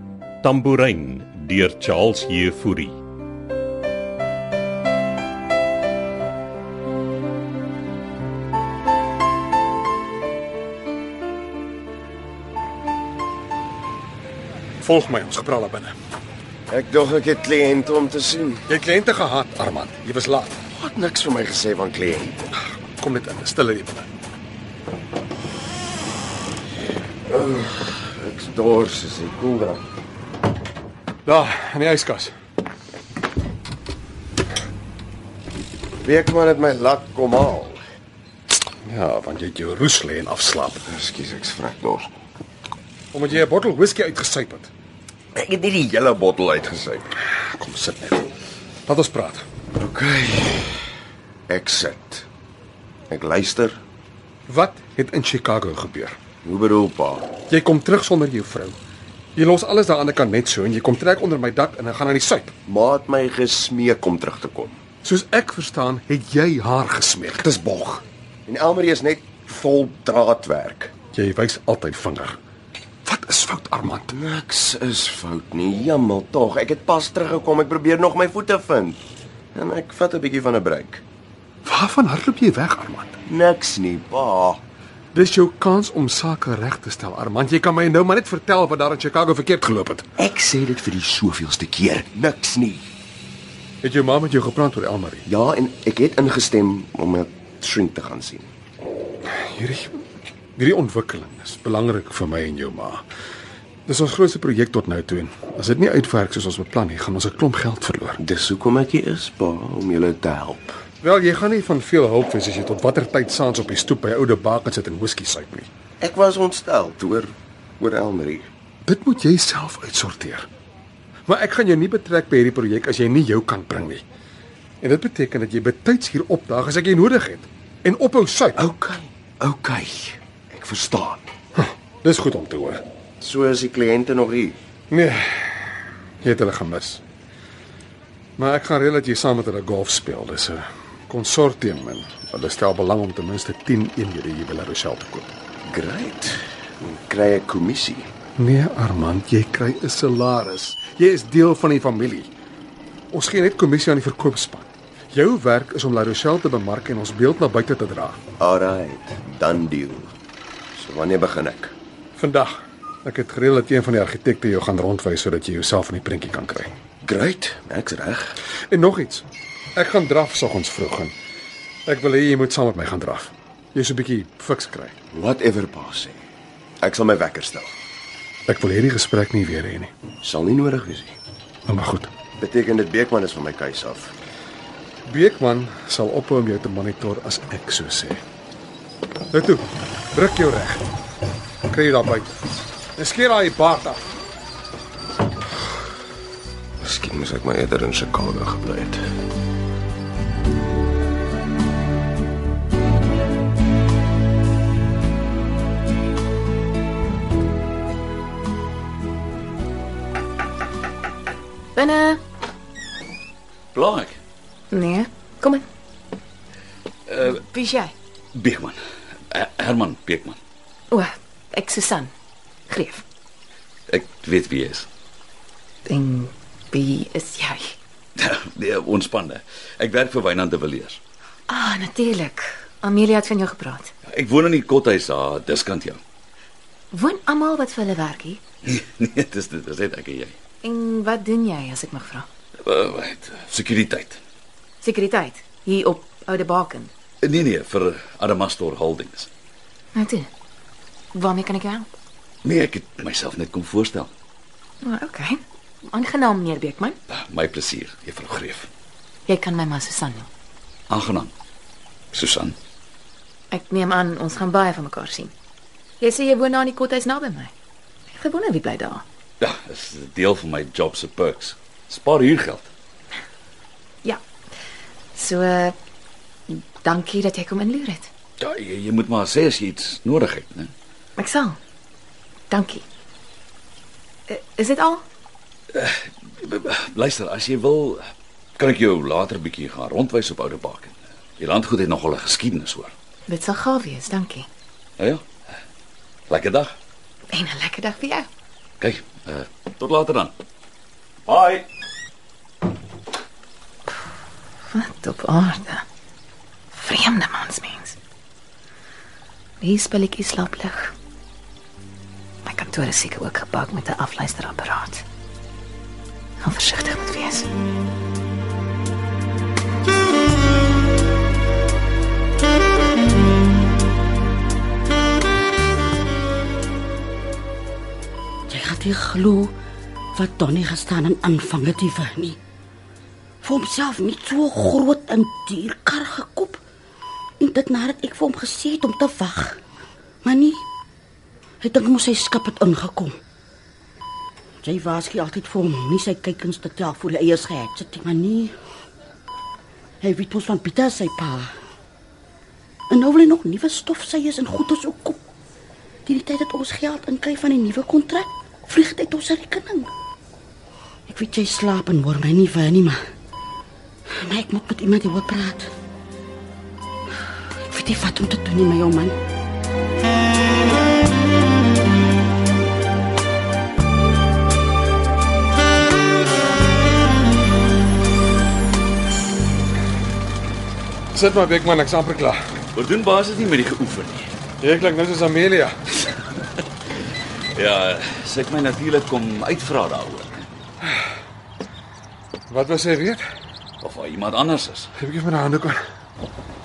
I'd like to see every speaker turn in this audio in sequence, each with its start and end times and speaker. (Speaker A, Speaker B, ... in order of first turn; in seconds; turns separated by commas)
Speaker A: 0.4-3.0, Speaker B: 14.8-15.9, Speaker C: 16.7-18.7, Speaker B: 18.7-20.6, Speaker C: 20.7-22.6, Speaker B: 22.8-24.1, Speaker C: 27.3-29.8, Speaker B: 31.2-32.3, Speaker C: 36.0-37.8, Speaker B: 38.9-40.8, Speaker C: 40.9-42.1, Speaker B: 43.1-44.7, Speaker C: 45.3-47.1, Speaker B: 47.5-48.3, Speaker B: 48.9-49.5, Speaker C: 49.8-50.8, Speaker C: 51.5-52.3, Speaker C: 53.1-53.8, Speaker B: 54.5-56.2, Speaker C: 56.4-57.3, Speaker B: 57.5-58.8, Speaker B: 59.4-62.5, Speaker C: 62.7-64.8, Speaker B: 65.0-67.5, Speaker C: 67.5-70.9, Speaker B: 71.1-72.4, Speaker B: 73.0-74.1, Speaker C: 74.1-79.0, Speaker C: 79.5-81.0, Speaker B: 81.6-83.2, Speaker C: 83.3-84.6, Speaker B: 85.1-90.1, Speaker C: 90.2-92.9, Speaker B: 93.8-95.2, Speaker C: 95.2-98.5, Speaker B: 99.3-100.0, Speaker B: 100.5-103.0, Speaker B: 103.9-108.2, Speaker C: 108.2-110.7, Speaker B: 111.0-115.7, Speaker C: 116.0-118.5, Speaker B: 118.8-120.5, Speaker B: 121.3-124.0, Speaker B: 124.8-128.6, Speaker C: 128.5-131.2, Speaker B: 131.6-132.8, Speaker C: 133.2-134.6, Speaker B: 134.9-135.5, Speaker B: 136.2-137.0, Speaker B: 138.4-145.3, Speaker C: 145.7-148.1, Speaker B: 148.4-152.3, Speaker B: 153.1-158.2, Speaker C: 158.4-160.1, Speaker C: 160.8-161.7, Speaker B: 162.2-166.7, Speaker C: 167.0-168.4, Speaker B: 168.7-171.1, Speaker B: 171.9-174.9, Speaker C: 175.1-176.2, Speaker C: 176.8-177.7, Speaker B: 178.5-179.9, Speaker C: 180.2-181.2, Speaker B: 181.7-182.1, Speaker C: 182.4-184.1, Speaker B: 185.1-188.2, Speaker B: 189.3-190.8, Speaker B: 191.7-192.4, Speaker B: 193.0-194.0, Speaker C: 196.8-199.0, Speaker D: 211.7-212.2, Speaker E: 213.7-214.2, Speaker D: 214.7-215.6, Speaker D: 217.2-217.9, Speaker E: 218.3-218.8, Speaker E: 219.3-220.4, Speaker D: 220.9-222.1, Speaker D: 222.7-223.0, Speaker E: 223.9-224.9, Speaker D: 225.8-227.7, Speaker E: 228.2-231.0, Speaker D: 231.5-233.9, Speaker E: 234.1-236.0, Speaker D: 236.9-238.4, Speaker E: 238.7-240.3, Speaker D: 240.6-242.2, Speaker E: 242.6-244.2, Speaker D: 244.8-246.9, Speaker E: 247.2-249.3, Speaker D: 249.9-250.3, Speaker D: 251.1-251.9, Speaker E: 252.4-254.1, Speaker D: 254.8-257.0, Speaker E: 257.1-258.7, Speaker D: 259.3-260.3, Speaker E: 260.9-261.3, Speaker E: 262.1-262.6, Speaker D: 263.5-265.3, Speaker D: 266.0-267.5, Speaker D: 268.1-269.0, Speaker E: 269.4-272.7, Speaker D: 275.1-275.7, Speaker D: 276.5-278.1, Speaker E: 278.4-280.7, Speaker D: 281.2-281.6, Speaker D: 282.5-282.8, Speaker D: 284.3-285.0, Speaker E: 285.7-288.0, Speaker E: 288.6-292.9, Speaker D: 293.3-294.5, Speaker E: 296.3-296.7, Speaker D: 297.3-298.3, Speaker E: 298.8-300.3, Speaker E: 301.3-301.6, Speaker D: 304.7-305.8, Speaker D: 306.7-307.9, Speaker D: 309.6-310.9, Speaker D: 312.4-315.0, Speaker D: 316.4-317.5, Speaker F: 328.5-329.5, Speaker F: 330.1-332.4, Speaker F: 333.4-336.6, Speaker F: 337.4-339.6, Speaker F: 340.2-340.6, Speaker F: 341.6-343.2, Speaker F: 344.6-348.5, Speaker F: 350.0-351.5, Speaker F: 352.9-355.2, Speaker F: 356.0-359.9, Speaker F: 361.1-363.0, Speaker F: 364.1-365.7, Speaker F: 367.6-369.2, Speaker B: 381.1-382.4, Speaker E: 382.7-384.3, Speaker B: 384.6-385.8, Speaker E: 387.5-390.4, Speaker B: 392.5-393.2, Speaker E: 393.8-394.9, Speaker B: 395.0-395.8